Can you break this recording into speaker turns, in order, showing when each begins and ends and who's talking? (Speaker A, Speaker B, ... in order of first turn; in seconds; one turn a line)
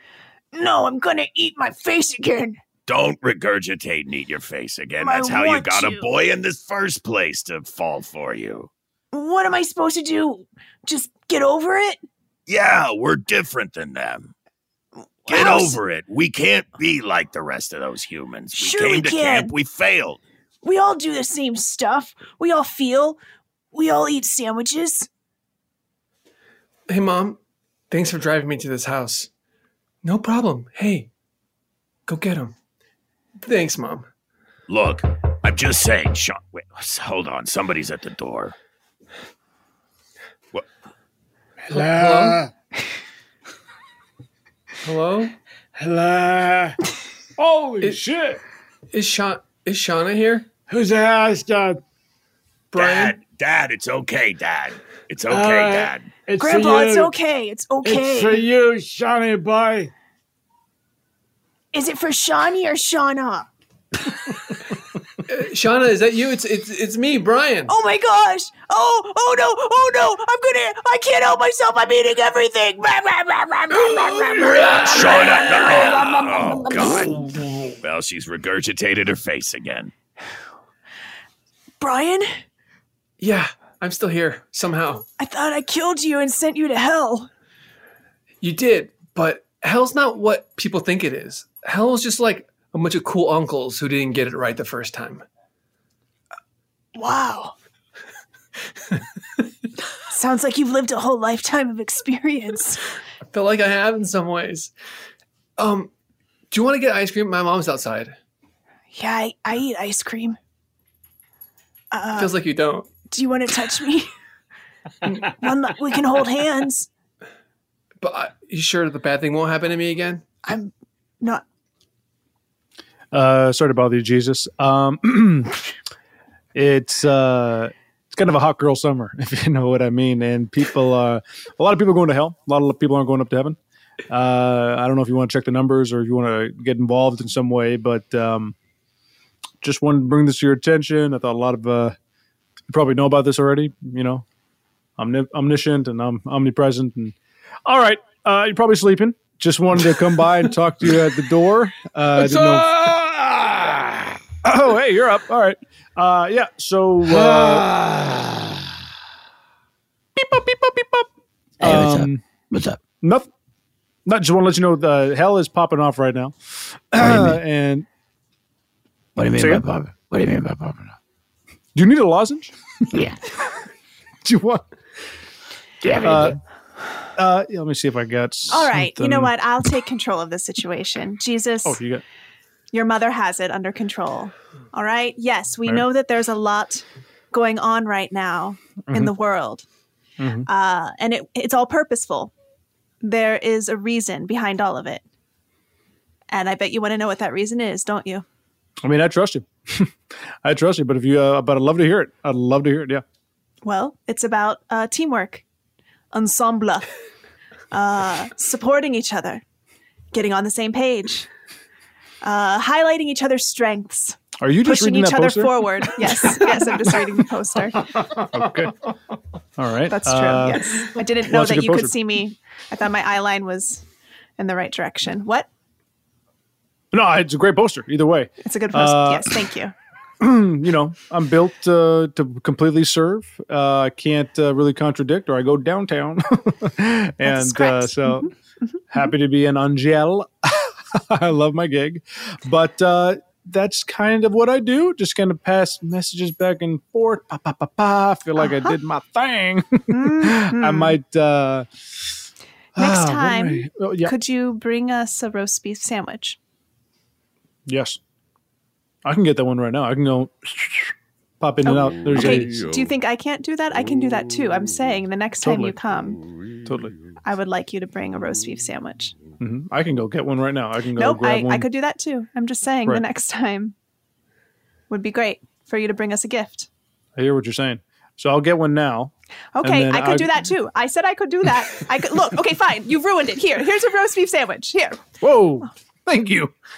Speaker A: 0.5-2.6
Speaker B: 2.9-8.7
Speaker A: 5.0-6.1
Speaker A: 9.1-12.0
Speaker B: 12.5-14.3
Speaker A: 15.3-15.8
Speaker B: 15.3-20.2
Speaker A: 18.5-19.5
Speaker A: 20.6-23.2
Speaker A: 23.7-25.1
Speaker C: 26.9-27.4
Speaker C: 27.9-29.3
Speaker C: 30.0-31.1
Speaker C: 32.1-32.5
Speaker C: 33.4-34.1
Speaker B: 34.7-38.5
Speaker D: 41.7-42.5
Speaker C: 41.7-42.4
Speaker C: 44.8-45.3
Speaker D: 45.8-46.8
Speaker D: 47.4-48.4
Speaker C: 48.9-50.5
Speaker D: 50.7-51.8
Speaker C: 52.7-53.2
Speaker B: 52.7-56.1
Speaker D: 55.3-57.1
Speaker A: 56.4-58.5
Speaker D: 57.8-59.9
Speaker A: 61.7-63.5
Speaker C: 65.3-67.7
Speaker A: 67.7-77.3
Speaker B: 74.8-77.2
Speaker B: 77.8-79.9
Speaker A: 81.8-82.4
Speaker C: 83.2-85.0
Speaker A: 85.2-87.3
Speaker C: 88.4-95.2
Speaker A: 97.0-97.5
Speaker A: 100.1-102.8
Speaker C: 103.3-104.7
Speaker C: 105.6-105.9
Speaker C: 106.5-108.2
Speaker A: 108.9-110.4
Speaker A: 111.9-112.3
Speaker C: 112.1-113.0
Speaker A: 113.0-114.1
Speaker A: 115.1-116.9
Speaker C: 118.0-120.2
Speaker A: 120.4-121.4
Speaker E: 123.1-125.6
Speaker E: 126.5-133.6
Speaker E: 134.1-138.6
Speaker E: 139.6-142.0
Speaker E: 142.7-144.2
Speaker E: 145.0-147.2
Speaker E: 147.7-152.8
Speaker E: 154.4-157.7
Speaker E: 160.2-161.1
Speaker E: 161.6-162.2
Speaker F: 161.6-162.8
Speaker E: 163.0-163.3
Speaker E: 164.1-166.3
Speaker E: 166.9-167.9
Speaker F: 167.0-167.4
Speaker F: 169.2-170.9
Speaker E: 169.4-169.7
Speaker E: 171.8-172.5
Speaker F: 172.9-173.2
Speaker E: 174.2-174.6
Speaker F: 175.8-176.4
Speaker E: 176.0-176.4
Speaker E: 177.2-179.3
Speaker G: 178.5-181.8
Speaker E: 181.6-182.0
Speaker G: 182.7-189.7
Speaker E: 190.2-190.5
Speaker G: 190.5-192.3
Speaker G: 193.0-195.0
Speaker G: 196.3-198.2
Speaker E: 198.8-199.9
Speaker E: 200.4-203.0
Speaker G: 203.6-205.4
Speaker G: 206.1-206.9
Speaker G: 207.7-209.4
Speaker G: 210.1-211.3
Speaker G: 212.2-217.9
Speaker E: 214.4-217.0
Speaker E: 217.9-218.8
Speaker E: 219.6-221.9
Speaker G: 219.9-223.8
Speaker G: 224.4-225.5
Speaker E: 226.9-229.4
Speaker G: 228.4-229.7
Speaker E: 230.2-238.3
Speaker G: 237.2-238.3
Speaker E: 238.9-251.7
Speaker G: 248.4-248.8
Speaker G: 249.9-251.0
Speaker E: 252.8-254.1
Speaker G: 252.8-256.4
Speaker E: 257.7-258.0
Speaker E: 259.1-262.6
Speaker G: 261.6-266.2
Speaker E: 265.4-265.8
Speaker E: 266.6-267.0
Speaker G: 267.2-269.2
Speaker E: 269.4-271.7
Speaker G: 271.0-273.8
Speaker G: 274.9-276.7
Speaker E: 277.2-280.5
Speaker G: 279.6-285.1
Speaker E: 285.2-286.5